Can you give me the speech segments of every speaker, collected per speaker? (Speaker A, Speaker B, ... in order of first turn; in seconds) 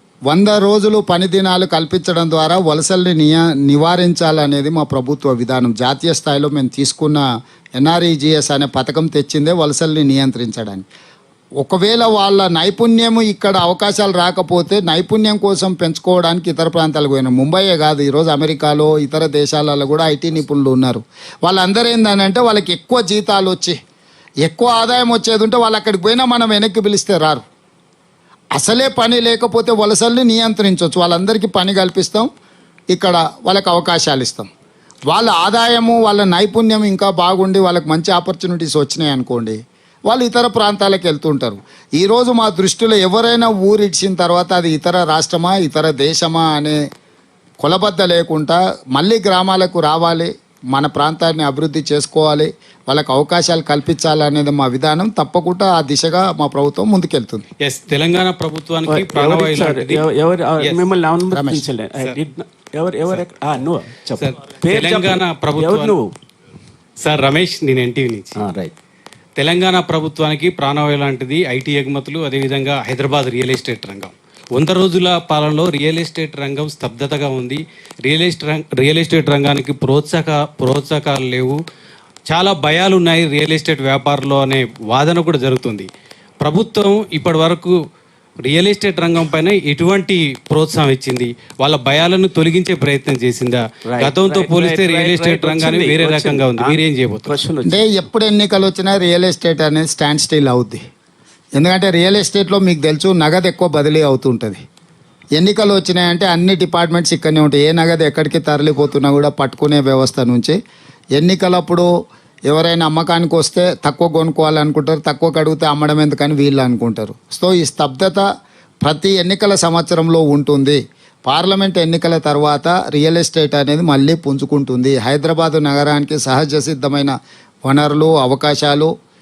Speaker A: 0.3-7.2, 7.7-10.8, 11.6-23.8, 24.4-27.4, 28.5-32.3, 32.9-34.5, 35.1-46.8, 47.6-57.5, 61.3-61.6, 97.7-100.8, 101.5-104.6, 105.4-110.6, 111.2-111.9, 112.5-118.2, 118.8-127.1, 127.7-128.9
Speaker B: 57.6-60.0, 64.2-65.9, 67.0-68.3, 69.4-81.5, 82.3-85.8, 86.4-87.7, 88.5-97.3
Speaker C: 58.9-66.1, 68.3-68.7, 93.8-97.8